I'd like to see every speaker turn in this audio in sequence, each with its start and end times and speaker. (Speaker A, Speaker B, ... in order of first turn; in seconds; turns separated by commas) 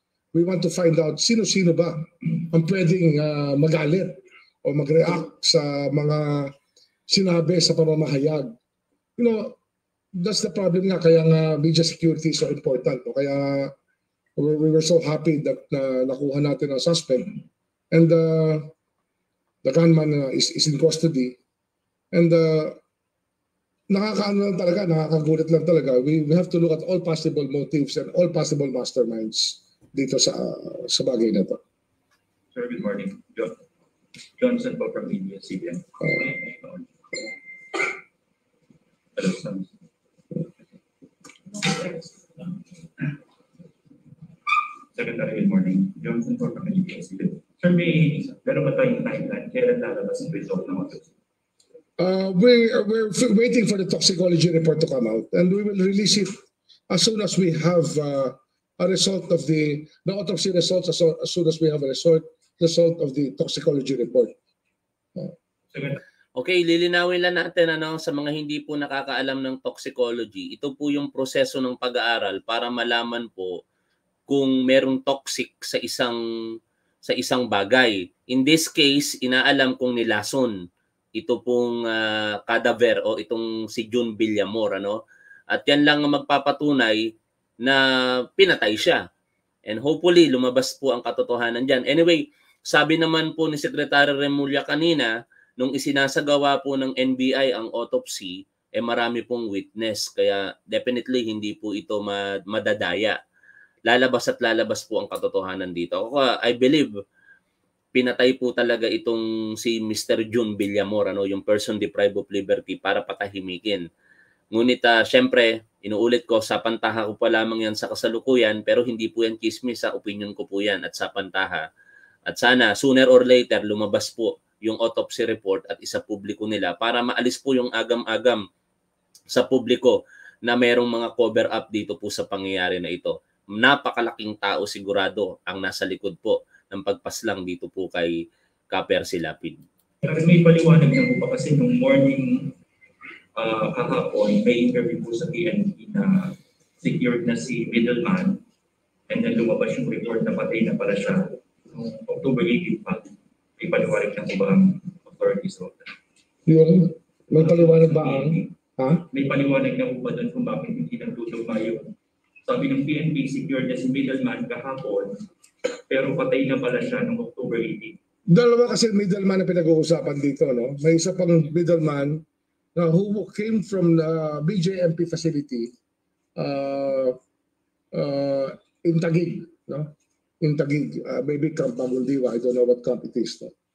Speaker A: 0.3-6.5, Speaker A: 7.1-8.5, Speaker A: 9.2-9.6, Speaker A: 10.1-13.7, Speaker A: 14.4-17.4, Speaker A: 17.9-18.7, Speaker A: 19.6-21.4, Speaker A: 22.1-22.8, Speaker A: 23.9-31.6, Speaker B: 32.5-33.5, Speaker B: 34.4-37.2, Speaker B: 39.1-39.7, Speaker B: 41.5-42.5, Speaker B: 44.9-51.1, Speaker A: 52.0-56.4, Speaker A: 56.9-64.3, Speaker C: 66.4-73.6, Speaker C: 74.3-76.2, Speaker C: 77.0-80.5, Speaker C: 81.2-87.8, Speaker C: 88.3-89.0, Speaker C: 89.7-103.2, Speaker C: 103.9-106.9, Speaker C: 107.9-113.8, Speaker C: 114.5-121.7, Speaker C: 122.3-128.4, Speaker C: 129.3-138.2, Speaker C: 138.7-139.6, Speaker B: 140.0-142.5, Speaker B: 143.3-148.4, Speaker B: 149.1-155.9, Speaker A: 156.4-159.0, Speaker B: 157.3-158.5, Speaker B: 159.1-161.9, Speaker B: 162.4-165.2, Speaker B: 165.9-168.0, Speaker A: 168.3-172.2, Speaker A: 172.7-175.7, Speaker A: 176.3-177.2, Speaker A: 177.9-183.5